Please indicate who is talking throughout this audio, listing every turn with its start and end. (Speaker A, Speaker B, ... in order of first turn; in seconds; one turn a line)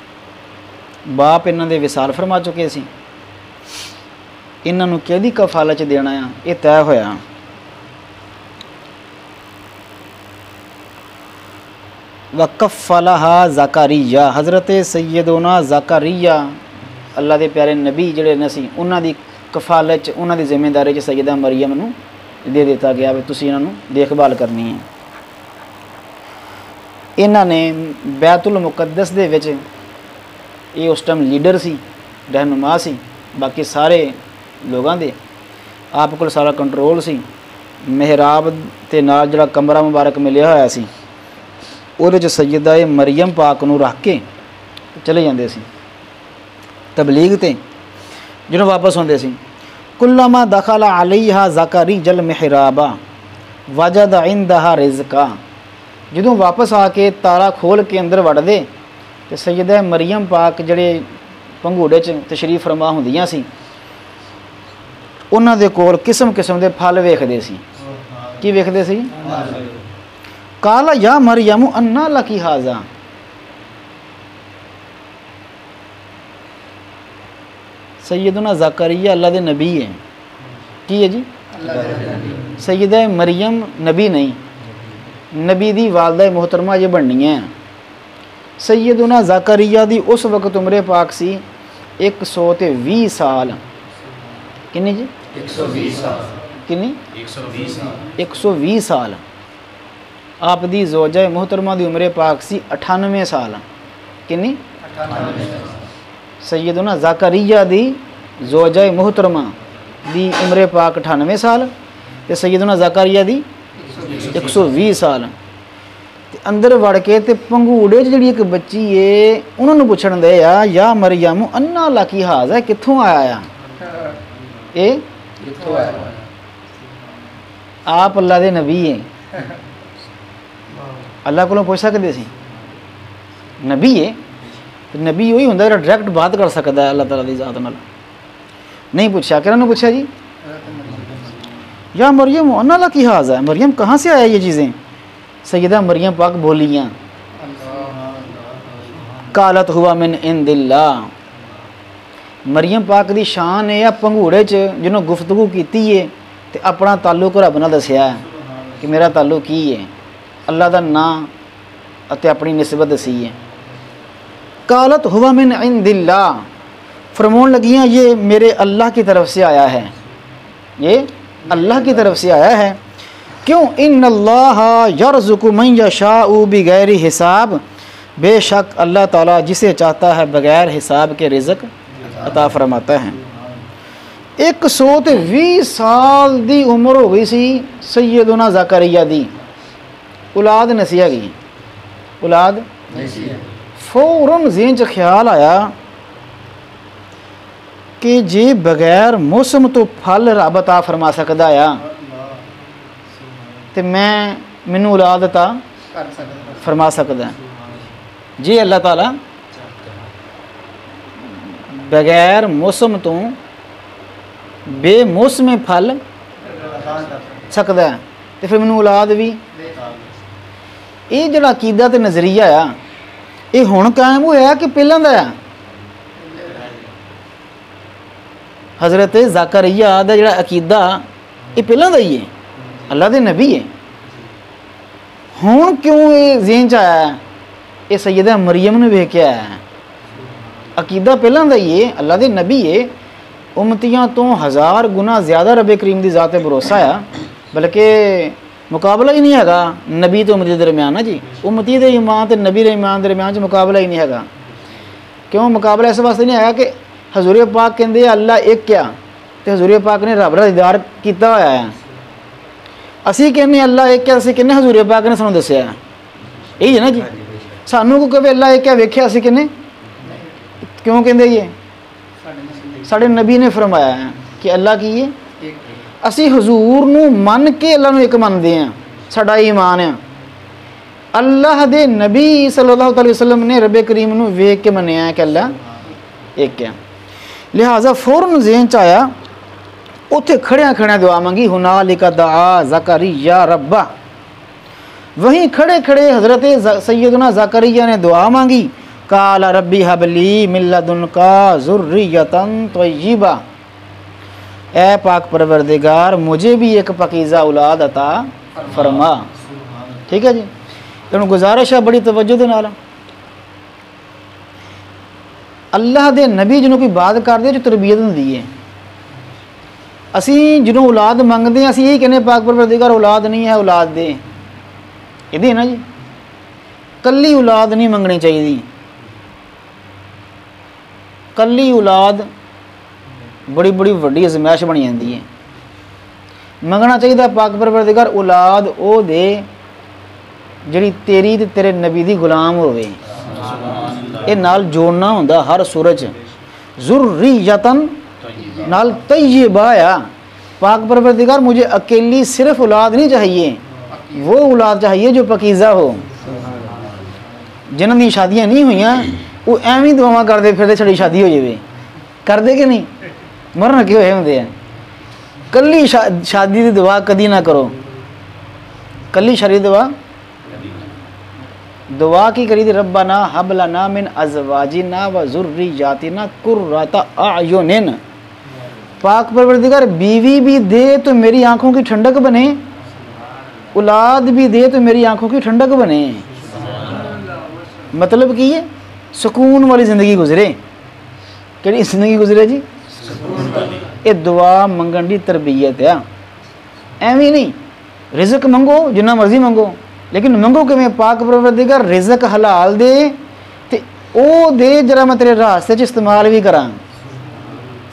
Speaker A: 1.1-2.9
Speaker A: 4.6-7.2
Speaker A: 12.3-16.6
Speaker A: 17.2-24.9
Speaker A: 27.2-29.6
Speaker A: 30.7-34.2
Speaker A: 34.7-35.1
Speaker A: 35.9-37.2
Speaker A: 37.9-40.9
Speaker A: 42.0-44.2
Speaker A: 45.0-45.7
Speaker A: 47.0-47.6
Speaker A: 48.5-49.4
Speaker A: 50.0-53.0
Speaker A: 53.7-55.4
Speaker A: 56.1-58.7
Speaker A: 59.3-61.1
Speaker A: 61.6-63.5
Speaker A: 65.3-67.6
Speaker B: 67.9-68.4
Speaker A: 68.4-69.1
Speaker B: 69.2-69.7
Speaker A: 70.6-72.9
Speaker A: 78.0-80.0
Speaker A: 80.9-81.3
Speaker C: 81.6-82.5
Speaker A: 82.6-84.4
Speaker A: 85.3-87.5
Speaker A: 88.6-91.4
Speaker A: 92.0-93.6
Speaker A: 94.7-95.1
Speaker C: 95.3-96.3
Speaker A: 96.7-97.0
Speaker A: 98.2-99.2
Speaker A: 100.4-103.6
Speaker A: 104.3-104.6
Speaker A: 106.4-109.5
Speaker A: 110.0-111.7
Speaker A: 112.3-113.5
Speaker A: 114.3-115.3
Speaker A: 116.3-123.5
Speaker A: 124.7-125.0
Speaker C: 125.5-126.1
Speaker A: 127.9-129.1
Speaker A: 131.2-132.3
Speaker A: 133.6-134.2
Speaker A: 134.9-137.8
Speaker A: 138.9-140.1
Speaker B: 140.7-141.2
Speaker A: 141.9-144.8
Speaker A: 145.4-146.9
Speaker B: 147.5-149.3
Speaker A: 149.3-151.1
Speaker A: 152.5-158.2
Speaker A: 158.8-159.9
Speaker A: 160.5-161.3
Speaker A: 162.1-163.3
Speaker A: 164.7-166.5
Speaker A: 167.2-169.9
Speaker A: 170.8-172.8
Speaker A: 173.4-177.6
Speaker A: 178.2-181.7
Speaker A: 182.2-183.2
Speaker A: 184.4-189.3
Speaker A: 190.3-191.3
Speaker A: 192.2-192.7
Speaker C: 192.9-193.4
Speaker A: 193.8-195.7
Speaker A: 198.0-201.8
Speaker B: 203.2-203.7
Speaker A: 203.8-205.6
Speaker B: 206.1-206.6
Speaker A: 206.6-207.3
Speaker B: 207.4-208.0
Speaker A: 208.4-209.2
Speaker A: 211.7-213.4
Speaker A: 214.7-216.0
Speaker B: 216.6-217.4
Speaker A: 217.5-219.4
Speaker B: 219.7-220.0
Speaker A: 221.1-222.8
Speaker A: 223.5-225.4
Speaker B: 226.4-226.7
Speaker A: 228.8-232.3
Speaker A: 232.9-233.7
Speaker A: 235.3-237.2
Speaker A: 237.9-239.6
Speaker A: 240.8-242.9
Speaker A: 243.6-254.3
Speaker A: 255.3-261.8
Speaker A: 263.1-265.8
Speaker A: 266.6-267.1
Speaker C: 266.9-267.6
Speaker A: 267.7-269.5
Speaker A: 270.8-271.5
Speaker A: 272.8-275.1
Speaker A: 276.0-280.0
Speaker A: 281.1-285.6
Speaker A: 286.4-286.8
Speaker A: 287.5-289.1
Speaker A: 290.1-293.9
Speaker A: 295.2-303.4
Speaker A: 304.7-309.3
Speaker B: 309.4-310.0
Speaker A: 310.1-310.5
Speaker A: 311.1-312.8
Speaker A: 315.7-318.5
Speaker A: 320.1-324.2
Speaker A: 325.3-325.8
Speaker A: 327.0-328.7
Speaker A: 331.4-332.3
Speaker A: 333.5-335.2
Speaker A: 336.6-339.5
Speaker A: 340.7-343.0
Speaker A: 344.2-346.1
Speaker A: 346.8-347.9
Speaker A: 348.6-350.1
Speaker A: 350.6-353.6
Speaker A: 354.1-356.1
Speaker A: 357.7-361.6
Speaker A: 362.3-362.9
Speaker A: 363.6-364.5
Speaker A: 365.5-367.8
Speaker A: 369.1-369.9
Speaker A: 371.9-378.0
Speaker A: 379.0-382.6
Speaker A: 383.7-386.2
Speaker B: 386.5-387.2
Speaker A: 387.9-390.6
Speaker A: 391.6-392.6
Speaker A: 394.0-396.0
Speaker A: 397.0-397.6
Speaker A: 398.1-403.2
Speaker A: 403.7-406.8
Speaker B: 407.1-407.8